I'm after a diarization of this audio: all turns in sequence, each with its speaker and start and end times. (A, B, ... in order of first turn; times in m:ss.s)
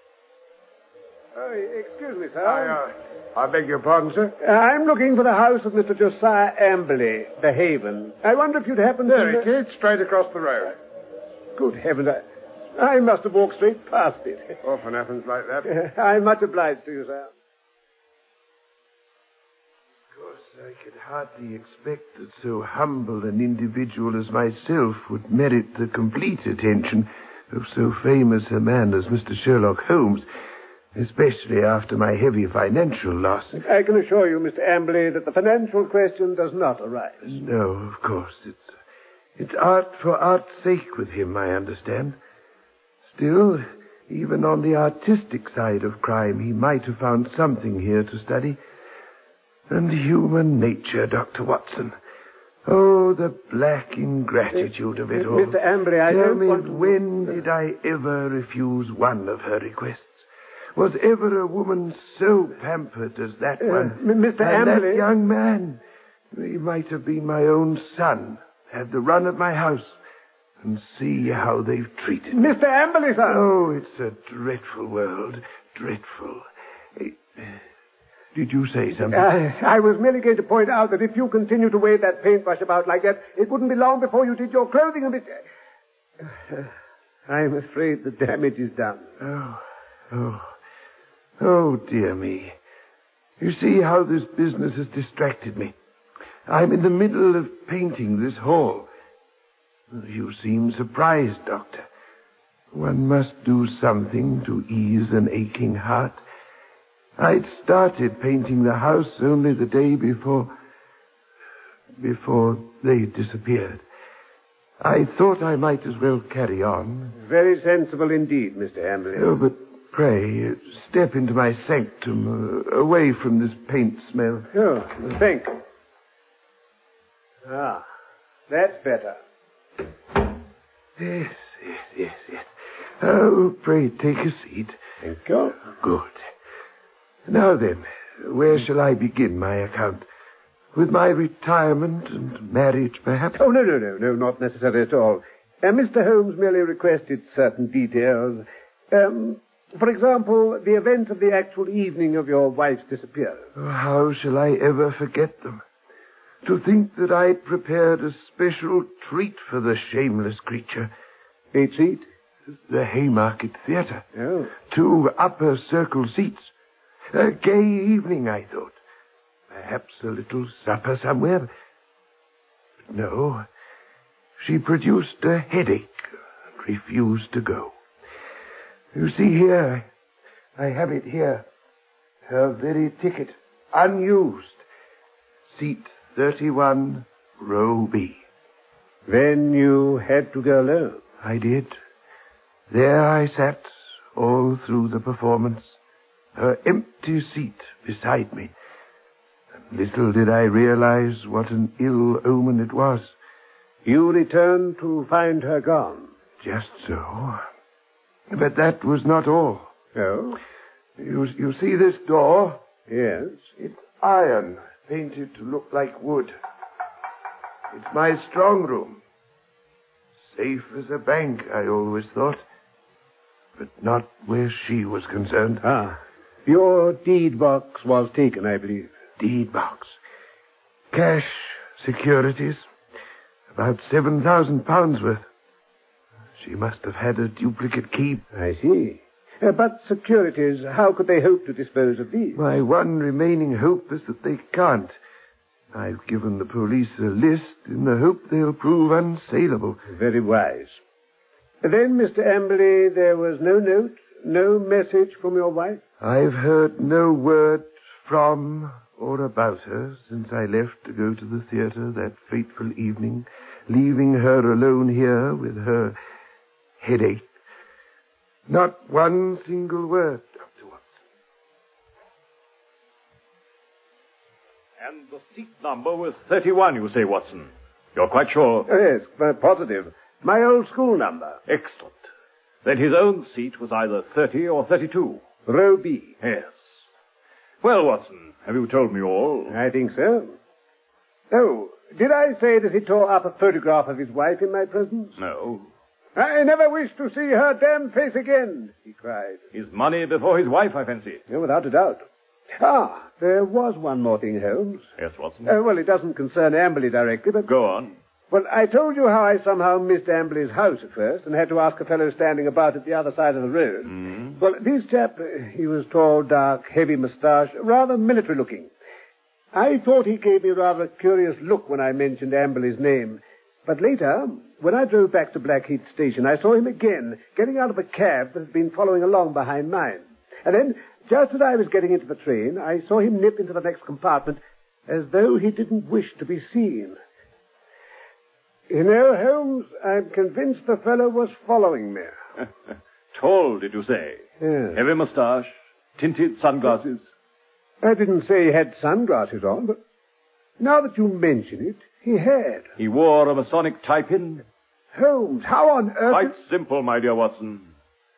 0:01.4-0:02.8 A
0:02.4-0:04.4 B
0:04.4-0:09.5 A
0:09.1-0:10.7 B
0:11.6-0:12.2 A
0:12.8-0:14.6 A
0:14.6-0:15.7 B
0:15.7-0:17.3 A
0:20.1-0:30.3 C
0:31.0-0:33.6 C
0:33.6-0:37.3 A
0:37.2-0:38.8 C
0:39.4-0:42.2 C
0:43.0-0:48.6 C
0:49.7-0:52.0 C
0:52.7-1:05.8 C
0:55.1-0:57.0 A
1:03.6-1:05.1 A
1:06.3-1:10.0 C
1:10.6-1:12.4 C
1:12.3-1:13.4 A
1:13.3-1:16.4 C
1:17.0-1:17.6 C
1:18.3-1:19.3 C
1:19.1-1:25.4 A
1:26.3-1:26.7 A
1:27.3-1:29.1 A
1:29.2-1:30.5 C
1:31.4-1:32.6 C
1:33.4-1:35.7 C
1:36.5-1:38.9 C
1:39.9-1:41.9 C
1:42.7-1:46.2 C
1:47.2-1:50.5 C
1:52.0-1:53.8 C
1:54.8-1:57.2 C
1:57.2-1:59.3 A
1:59.1-2:04.5 C
2:04.5-2:05.5 A
2:07.5-2:07.8 A
2:08.5-2:09.2 A
2:11.0-2:12.5 C
2:13.0-2:14.8 C
2:15.0-2:15.6 A
2:15.8-2:16.2 C
2:17.3-2:20.0 C
2:20.7-2:23.4 C
2:23.4-2:33.5 A
2:33.6-2:35.6 C
2:36.4-2:40.9 C
2:41.5-2:42.0 A
2:42.7-2:44.0 C
2:44.2-2:44.5 A
2:44.7-2:46.5 C
2:47.1-2:48.8 C
2:49.5-2:51.5 C
2:52.9-2:53.5 C
2:54.4-2:56.0 C
2:56.6-2:57.8 C
2:58.9-2:59.9 C
3:00.6-3:01.4 C
3:02.3-3:04.6 C
3:05.5-3:08.2 C
3:09.1-3:11.0 A
3:11.2-3:11.7 C
3:12.7-3:15.8 C
3:16.4-3:18.5 C
3:19.7-3:23.1 C
3:23.8-3:26.1 A
3:26.4-3:27.4 C
3:28.3-3:29.7 C
3:30.0-3:30.4 A
3:31.0-3:32.6 C
3:32.9-3:33.4 A
3:33.6-3:36.4 C
3:37.7-3:39.0 C
3:40.3-3:42.4 C
3:43.6-3:45.6 C
3:45.6-3:48.9 A
3:49.2-3:50.0 C
3:50.9-3:52.6 C
3:53.5-3:55.3 C
3:56.4-3:58.2 C
3:58.3-4:02.4 A
4:02.4-4:05.0 C
4:05.7-4:09.8 C
4:09.9-4:10.8 A
4:11.6-4:15.8 A
4:16.0-4:26.0 C
4:26.8-4:27.3 C
4:28.5-4:31.0 C
4:34.8-4:38.7 D
4:38.7-4:41.4 A
4:41.5-4:42.1 D
4:42.6-4:45.2 D
4:45.5-4:46.2 A
4:46.2-4:46.9 D
4:47.6-4:49.6 D
4:49.5-4:50.4 A
4:51.3-4:55.2 A
4:55.2-4:55.7 D
4:56.2-4:59.4 A
4:59.5-5:01.2 D
5:01.3-5:02.0 A
5:02.6-5:04.8 A
5:05.0-5:05.5 D
5:05.4-5:07.5 A
5:07.4-5:07.9 D
5:08.3-5:18.7 A
5:13.9-5:14.4 D
5:19.5-5:37.0 A
5:38.7-5:42.2 A
5:43.1-5:47.1 D
5:44.4-5:44.8 A
5:47.8-5:49.8 A
5:50.6-5:52.6 A
5:52.8-5:54.4 D
5:54.9-5:56.3 A
5:56.1-5:57.7 D